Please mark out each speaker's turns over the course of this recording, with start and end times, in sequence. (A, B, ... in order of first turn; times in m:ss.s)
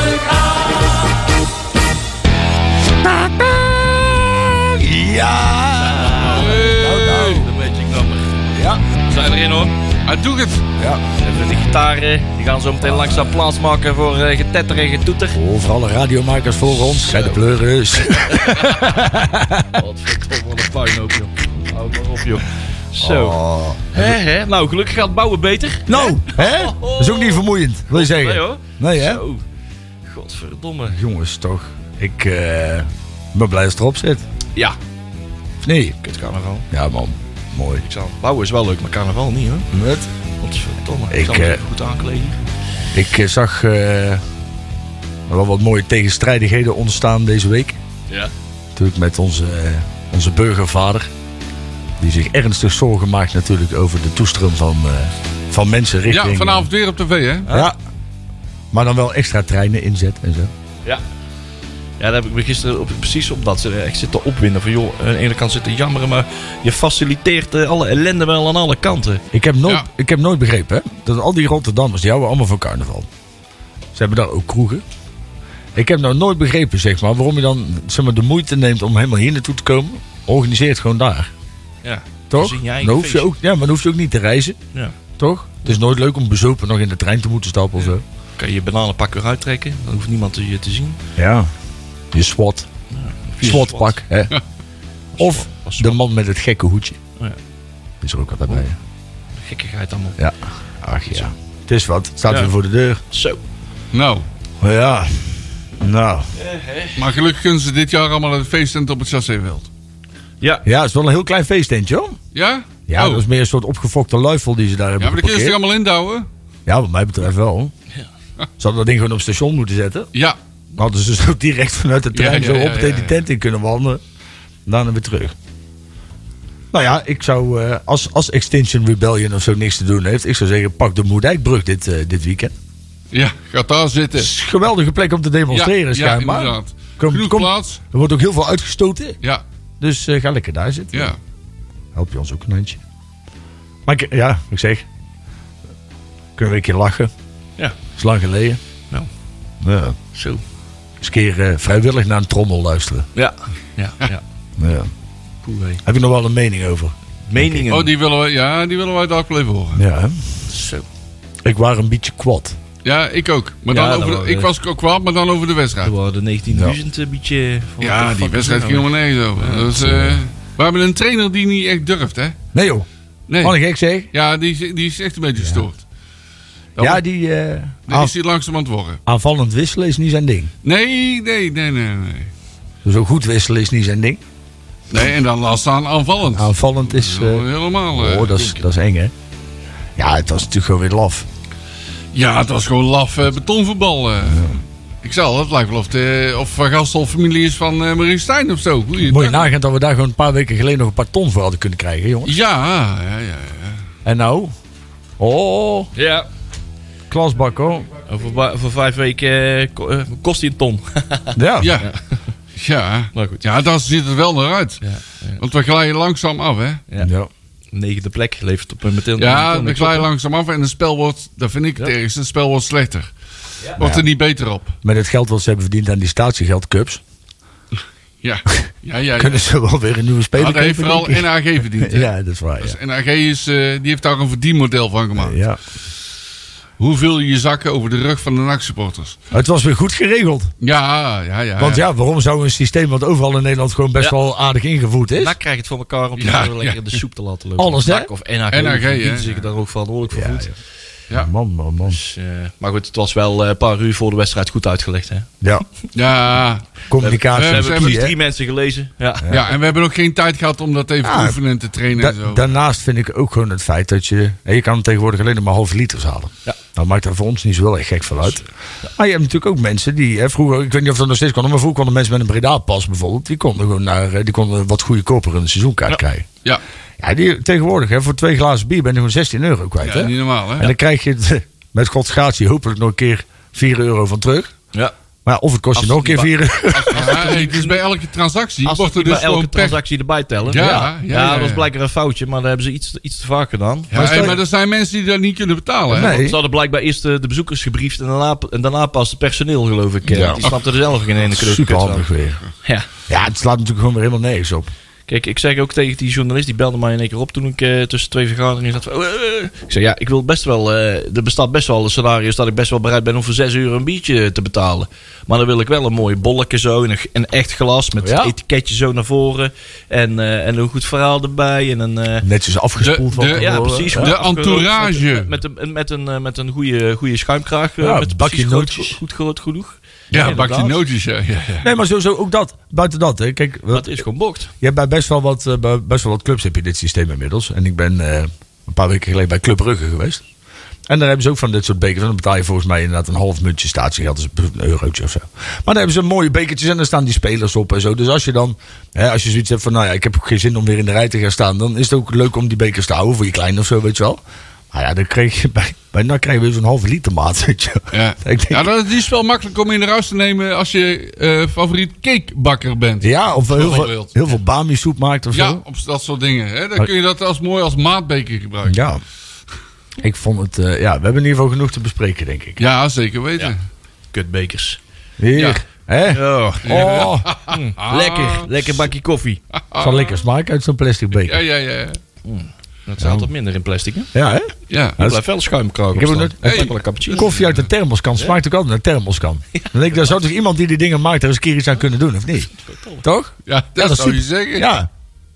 0:03.0-0:07.4 A
0:05.9-0:09.7 B
0:06.3-0:07.4 C
0:08.5-0:08.8 A
0:10.0-0:10.6 C
0:10.8-0:11.0 A
0:11.2-0:15.4 B
0:15.3-0:19.8 A
0:17.1-0:17.4 B
0:18.4-0:18.9 B
0:19.7-0:23.4 B
0:23.0-0:24.2 A
0:23.9-0:29.4 B
0:25.9-0:29.2 A
0:30.1-0:31.0 B
0:30.9-0:34.2 A
0:35.6-0:36.0 A
0:36.0-0:36.7 B
0:36.7-0:37.8 A
0:37.8-0:39.7 B
0:39.7-0:40.1 A
0:40.4-0:42.4 B
0:41.1-0:41.6 A
0:42.9-0:44.2 A
0:45.3-0:47.8 A
0:48.8-0:51.1 A
0:52.0-0:56.7 A
0:56.0-0:57.5 C
0:57.4-0:57.7 B
0:57.5-0:57.8 A
0:58.7-1:00.5 A
1:02.0-1:09.2 B
1:09.3-1:13.1 A
1:13.9-1:14.8 A
1:15.7-1:21.3 A
1:21.8-1:23.3 B
1:22.3-1:24.6 A
1:25.2-1:28.0 A
1:28.4-1:31.0 B
1:31.2-1:31.5 A
1:32.1-1:32.7 A
1:32.9-1:34.0 B
1:33.4-1:34.3 A
1:35.2-1:36.0 B
1:35.2-1:37.0 A
1:38.0-1:38.8 A
1:39.4-1:40.2 B
1:40.2-1:43.0 A
1:42.3-1:42.5 B
1:43.1-1:43.4 B
1:43.9-1:44.2 C
1:44.6-1:46.3 A
1:46.4-1:47.0 B
1:47.0-1:49.7 C
1:50.4-1:50.7 B
1:50.6-1:52.2 A
1:52.3-1:53.2 C
1:52.9-1:55.6 A
1:55.0-1:56.3 C
1:56.7-1:57.7 A
1:58.6-2:00.1 A
2:00.8-2:04.0 A
2:02.1-2:03.2 C
2:04.6-2:05.3 A
2:06.7-2:12.5 A
2:13.1-2:14.3 C
2:14.2-2:19.2 A
2:15.5-2:17.8 C
2:19.8-2:21.1 A
2:20.9-2:21.2 C
2:22.0-2:22.8 A
2:23.9-2:24.9 A
2:26.4-2:27.1 A
2:28.0-2:28.6 A
2:29.6-2:30.0 A
2:30.1-2:30.4 B
2:31.0-2:33.1 A
2:33.2-2:34.2 B
2:34.6-2:34.9 A
2:35.4-2:35.8 B
2:35.8-2:37.7 A
2:37.3-2:37.9 B
2:37.7-2:39.8 C
2:39.8-2:40.2 A
2:40.5-2:40.9 B
2:41.4-2:42.6 A
2:42.8-2:45.9 C
2:43.7-2:44.5 B
2:45.8-2:49.7 B
2:46.5-2:46.8 A
2:47.8-2:52.4 C
2:49.7-2:50.2 A
2:52.5-2:52.9 A
2:53.3-2:53.6 C
2:53.4-2:54.1 A
2:54.1-2:55.8 C
2:55.4-2:55.6 A
2:56.8-2:57.0 C
2:56.8-2:58.1 A
2:57.9-2:59.0 C
2:59.1-3:00.5 A
3:00.6-3:02.3 C
3:02.8-3:04.2 A
3:04.9-3:08.4 C
3:06.3-3:09.1 A
3:10.0-3:11.3 A
3:12.1-3:19.5 C
3:14.3-3:14.6 A
3:19.0-3:22.4 A
3:22.2-3:23.8 C
3:24.0-3:24.5 A
3:25.2-3:25.9 A
3:26.0-3:26.3 B
3:27.1-3:27.9 A
3:28.1-3:32.2 B
3:31.3-3:31.8 A
3:31.6-3:31.9 C
3:32.6-3:34.8 C
3:33.1-3:33.4 B
3:34.8-3:35.4 B
3:35.4-3:36.8 C
3:37.0-3:37.3 A
3:37.7-3:40.1 B
3:39.2-3:43.1 C
3:43.8-3:44.7 C
3:43.8-3:44.0 A
3:44.8-3:47.0 A
3:48.2-3:49.4 C
3:49.2-3:51.3 A
3:50.3-3:55.4 C
3:51.8-3:52.8 A
3:55.2-3:55.6 A
3:56.8-3:59.2 C
3:59.3-4:00.5 A
4:00.6-4:01.8 C
4:01.6-4:05.4 A
4:05.2-4:10.6 B
4:06.2-4:06.9 C
4:07.6-4:08.1 A
4:08.5-4:09.4 C
4:10.1-4:10.5 A
4:11.1-4:12.0 A
4:11.8-4:15.3 B
4:15.9-4:16.8 C
4:16.9-4:18.2 A
4:17.0-4:19.4 B
4:17.3-4:18.0 C
4:19.2-4:19.5 A
4:19.3-4:22.4 C
4:21.0-4:21.4 A
4:22.0-4:36.3 A
4:37.0-4:44.5 A
4:39.8-4:40.7 C
4:45.2-4:47.2 A
4:45.7-4:46.4 B
4:46.8-4:49.8 C
4:46.9-4:47.8 B
4:48.6-4:54.4 B
4:50.5-4:51.7 C
4:50.5-4:50.9 A
4:53.9-4:56.2 C
4:53.9-4:54.4 A
4:55.9-4:56.4 A
4:55.9-5:02.1 B
5:00.1-5:00.4 A
5:01.3-5:02.4 A
5:03.1-5:04.7 A
5:05.1-5:22.3 B
5:18.0-5:18.3 A
5:22.2-5:24.2 A
5:22.8-5:25.3 C
5:23.3-5:30.8 B
5:27.8-5:29.0 A
5:30.1-5:31.7 C
5:31.6-5:34.0 A
5:33.7-5:34.5 B
5:34.6-5:40.2 A
5:40.9-5:54.2 A
5:54.7-5:58.7 A
5:57.9-6:04.1 C
6:03.0-6:05.6 A
6:05.3-6:08.8 C
6:08.6-6:09.0 A
6:10.0-6:12.6 A
6:12.6-6:13.6 C
6:14.1-6:14.8 B
6:15.2-6:17.3 A
6:15.4-6:15.6 C
6:16.1-6:19.4 B
6:16.6-6:18.7 C
6:19.6-6:20.2 C
6:19.8-6:21.4 A
6:21.2-6:22.0 C
6:22.2-6:24.1 B
6:23.0-6:23.3 A
6:24.1-6:25.2 A
6:24.7-6:25.0 C
6:25.0-6:27.3 B
6:25.9-6:32.5 A
6:26.4-6:27.7 C
6:29.5-6:30.2 B
6:32.5-6:33.0 B
6:33.0-6:34.9 A
6:33.5-6:34.7 C